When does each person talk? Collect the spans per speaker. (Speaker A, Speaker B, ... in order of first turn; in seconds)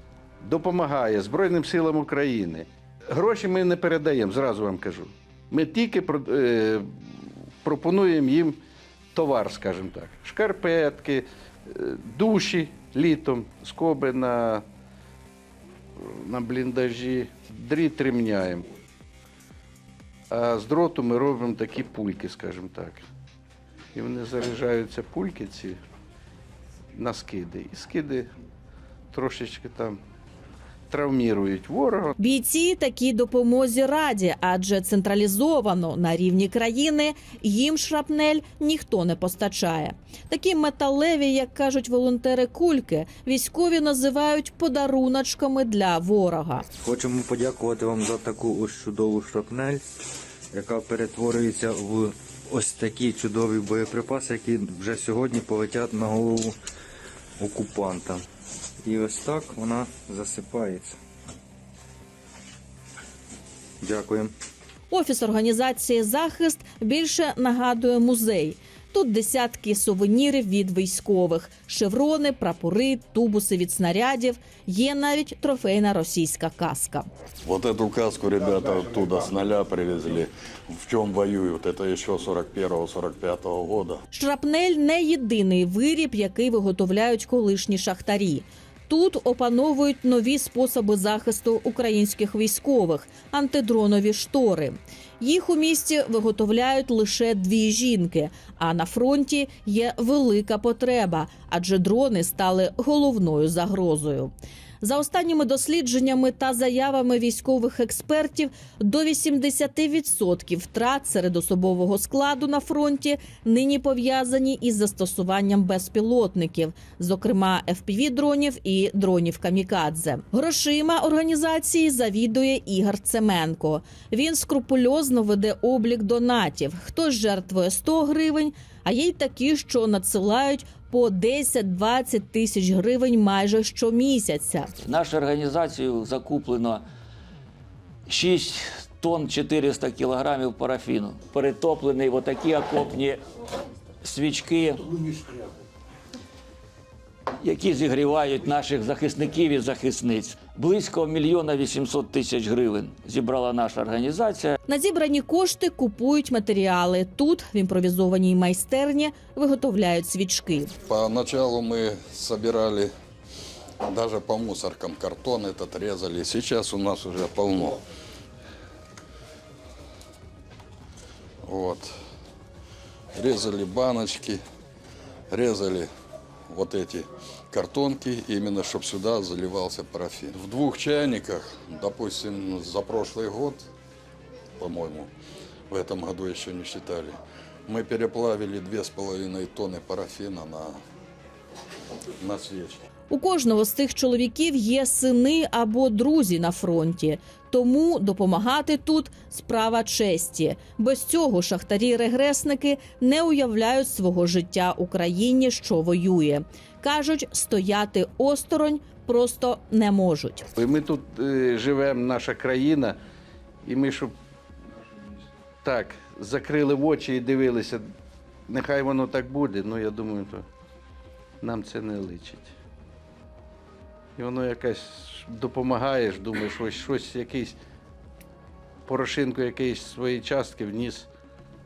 Speaker A: 0.4-7.0, 7.6-8.6, 9.1-14.6, 16.0-18.6, 20.3-23.0, 23.9-25.8, 26.9-28.3, 29.1-30.0, 30.9-32.1, 210.6-213.0, 213.6-214.1, 215.6-217.8, 218.5-220.4, 221.4-222.5, 224.2-227.6, 228.8-231.1
Speaker B: 32.2-46.6, 64.9-77.0, 84.1-134.7, 154.7-160.7, 193.1-210.5
Speaker C: 46.8-49.8, 50.5-56.5, 57.4-58.2, 58.8-61.0, 63.8-64.3
Speaker D: 77.4-84.0, 160.8-162.9, 163.8-167.8, 171.4-171.9, 173.1-174.4, 175.3-175.9, 176.5-183.6, 184.6-185.1, 185.7-187.2, 187.7-190.8, 192.2-192.8
Speaker E: 134.8-136.8, 138.1-143.2, 144.0-145.1, 147.4-154.6